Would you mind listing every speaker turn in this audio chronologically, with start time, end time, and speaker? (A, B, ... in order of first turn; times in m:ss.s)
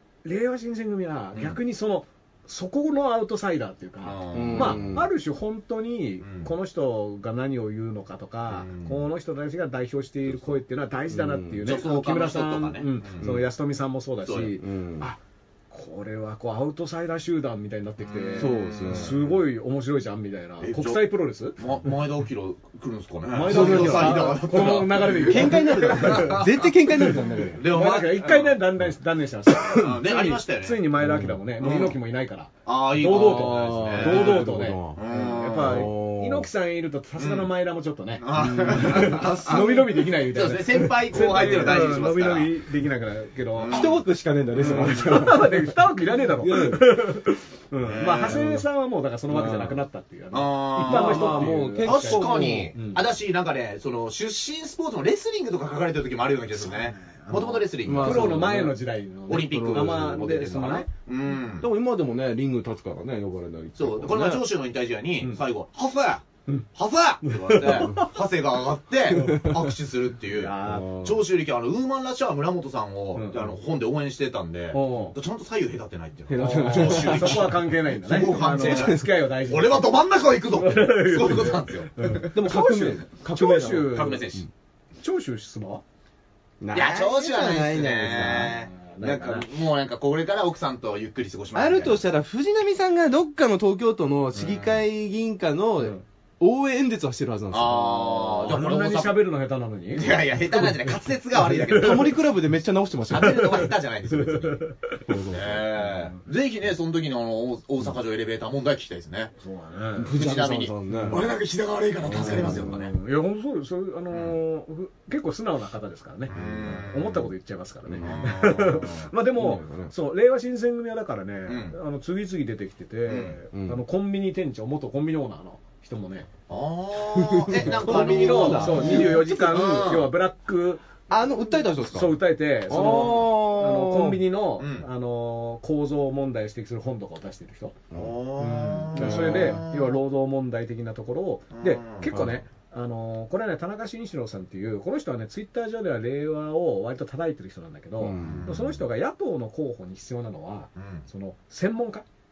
0:00.2-0:15.2 A
0:04.0-0:04.9 B
0:04.3-0:05.1 C
0:06.2-0:06.5 B
0:08.5-0:09.0 B
0:11.1-0:11.6 C
0:11.6-0:13.3 B
0:14.2-0:14.5 B
0:14.6-0:15.1 C
0:15.7-0:21.6 A
0:18.0-0:19.3 B
0:18.4-0:19.2 C
0:20.6-0:26.7 B
0:23.3-0:26.4 A
0:23.4-0:27.6 C
0:27.0-0:43.9 A
0:27.4-0:28.6 B
0:29.7-0:30.8 B
0:31.0-0:31.4 C
0:31.6-0:32.0 B
0:32.6-0:35.9 B
0:33.1-0:35.0 C
0:35.6-0:36.5 C
0:37.2-0:37.5 B
0:38.2-0:42.5 B
0:38.3-0:40.0 C
0:41.2-0:41.9 C
0:43.5-0:44.0 B
0:43.7-0:46.9 C
0:44.6-0:53.0 A
0:44.6-0:45.2 B
0:47.8-0:48.5 B
0:48.3-0:48.6 C
0:49.3-0:49.8 C
0:50.3-0:58.6 B
0:50.8-0:52.7 C
0:56.5-1:00.9 A
0:57.8-0:58.8 C
0:59.3-1:01.7 B
0:59.3-1:00.2 C
1:01.6-1:04.4 C
1:03.8-1:22.3 B
1:07.2-1:08.1 A
1:09.1-1:09.5 A
1:10.3-1:11.0 A
1:10.6-1:11.2 C
1:13.1-1:13.5 A
1:14.7-1:15.2 A
1:16.3-1:19.1 C
1:16.4-1:20.0 A
1:20.5-1:24.3 A
1:22.3-1:24.4 C
1:23.9-1:24.4 B
1:25.0-1:25.8 A
1:26.6-1:28.5 C
1:26.7-1:32.0 B
1:28.5-1:29.5 A
1:31.5-1:38.4 C
1:34.3-1:34.8 B
1:37.5-1:39.2 B
1:38.2-1:42.2 A
1:39.9-1:42.2 B
1:41.6-1:43.5 C
1:43.1-1:44.6 B
1:43.2-1:45.1 A
1:45.1-1:45.6 C
1:45.3-1:49.3 B
1:49.4-1:50.2 A
1:50.0-1:51.2 C
1:50.1-1:52.9 B
1:50.9-1:51.3 A
1:52.0-2:06.3 A
1:52.1-1:52.9 C
1:56.3-1:57.3 B
1:56.4-1:56.6 C
1:57.9-1:58.2 C
1:58.0-1:59.0 B
1:59.4-1:59.9 C
2:01.5-2:01.8 B
2:03.1-2:03.4 B
2:03.5-2:03.8 C
2:06.5-2:10.1 B
2:07.1-2:09.8 C
2:07.6-2:17.8 A
2:11.1-2:12.2 C
2:12.7-2:14.2 C
2:14.6-2:14.8 B
2:17.9-2:20.0 B
2:18.4-2:32.0 A
2:18.9-2:19.6 C
2:21.5-2:22.2 B
2:22.1-2:22.4 C
2:28.0-2:28.4 C
2:28.2-2:28.8 B
2:30.8-2:31.0 B